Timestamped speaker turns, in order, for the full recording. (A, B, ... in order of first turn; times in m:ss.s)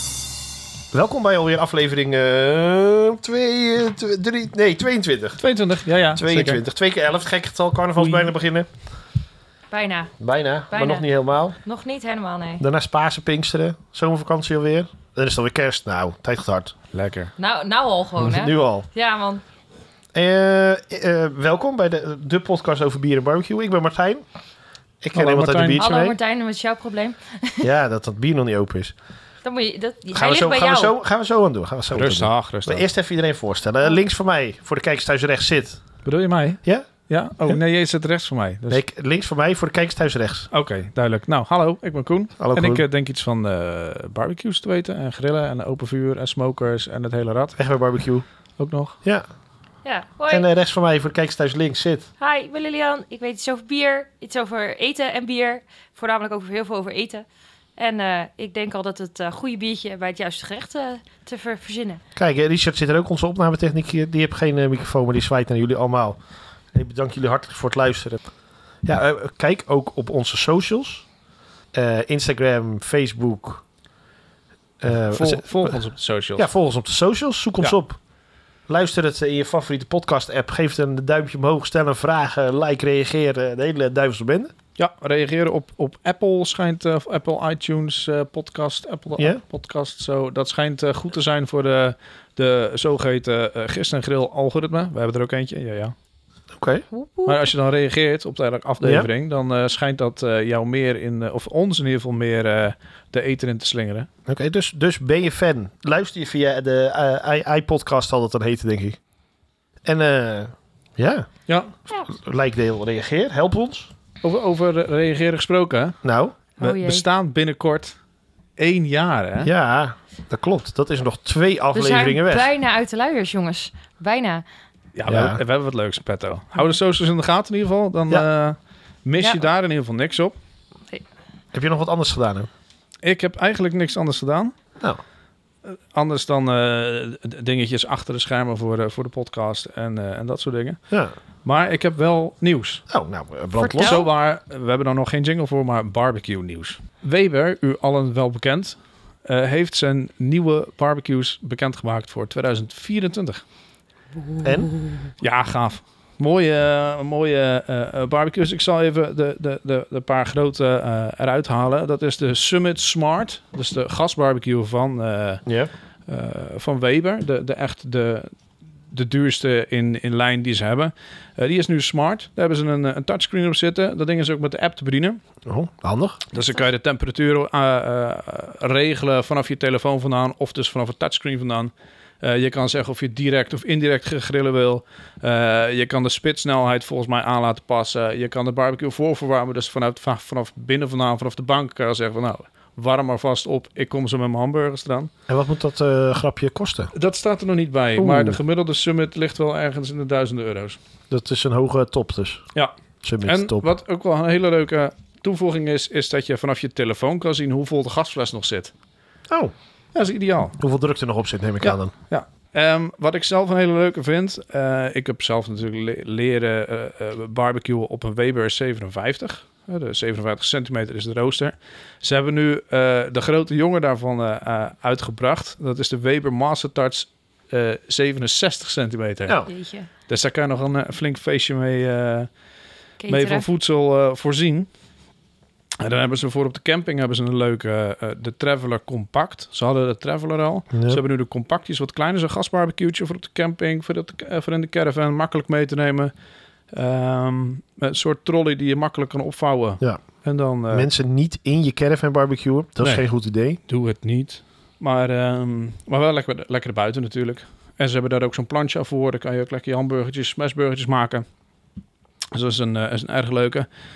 0:00.9-0:05.4 A
0:05.4-0:06.6 B
0:06.1-0:08.7 A
0:08.0-0:08.3 B
0:09.7-0:10.1 C
0:10.2-0:11.6 A
0:10.7-0:11.0 C
0:11.6-0:12.6 C
0:12.6-0:16.8 A
0:16.9-0:17.3 B
0:17.4-0:19.4 C
0:18.2-0:18.9 A
0:20.1-0:24.2 A
0:25.0-0:26.2 A
0:25.1-0:25.9 B
0:25.8-0:27.6 C
0:27.6-0:28.9 A
0:29.4-0:30.9 C
0:30.1-0:35.8 A
0:31.9-0:32.8 B
0:36.0-0:38.8 B
0:36.6-0:36.9 A
0:38.7-0:40.5 A
0:40.5-0:47.6 B
0:42.4-0:42.8 A
0:47.6-0:48.2 A
0:48.6-0:48.9 B
0:49.8-0:50.4 C
0:50.3-0:52.1 A
0:52.2-0:57.2 C
0:57.8-1:02.0 C
1:02.2-1:06.2 A
1:06.7-1:08.2 A
1:08.8-1:11.0 A
1:11.7-1:13.6 A
1:14.8-1:15.7 A
1:15.1-1:16.5 B
1:16.4-1:18.0 A
1:18.7-1:24.5 A
1:24.8-1:35.9 B
1:36.5-1:36.8 A
1:36.9-1:37.5 C
1:37.2-1:44.1 B
1:38.8-1:39.1 A
1:44.2-1:49.0 A
1:49.8-1:51.3 A
1:52.0-1:53.9 A
1:54.2-1:56.0 B
1:56.0-1:56.4 A
1:56.6-1:57.0 C
1:56.6-1:58.0 B
1:58.6-1:59.5 B
1:59.4-2:02.5 A
2:01.7-2:04.4 C
2:04.9-2:10.3 B
2:05.1-2:05.4 A
2:09.2-2:09.4 C
2:11.5-2:12.5 A
2:13.0-2:14.5 B
2:15.6-2:20.8 B
2:21.4-2:22.8 B
2:22.9-2:24.1 A
2:23.6-2:24.0 C
2:23.8-2:33.4 B
2:34.3-2:35.0 C
2:34.4-2:34.7 A
2:35.2-2:45.4 B
2:45.4-2:45.7 A
2:46.1-2:48.3 B
2:48.9-2:55.2 B
2:55.4-2:56.2 A
2:56.3-2:56.6 C
2:56.3-3:15.1 B
3:15.3-3:16.9 A
3:16.9-3:20.8 B
3:18.0-3:18.4 A
3:21.1-3:22.4 A
3:23.0-3:23.7 A
3:23.2-3:28.7 B
3:29.9-3:30.6 B
3:30.6-3:31.9 A
3:31.6-3:49.4 B
3:49.4-3:49.9 C
3:50.1-3:52.3 B
3:53.0-3:53.5 C
3:53.1-3:54.7 B
3:55.8-4:06.1 B
4:00.7-4:01.0 A
4:06.7-4:10.9 B
4:10.7-4:13.6 A
4:13.7-4:21.2 B
4:22.3-4:23.7 B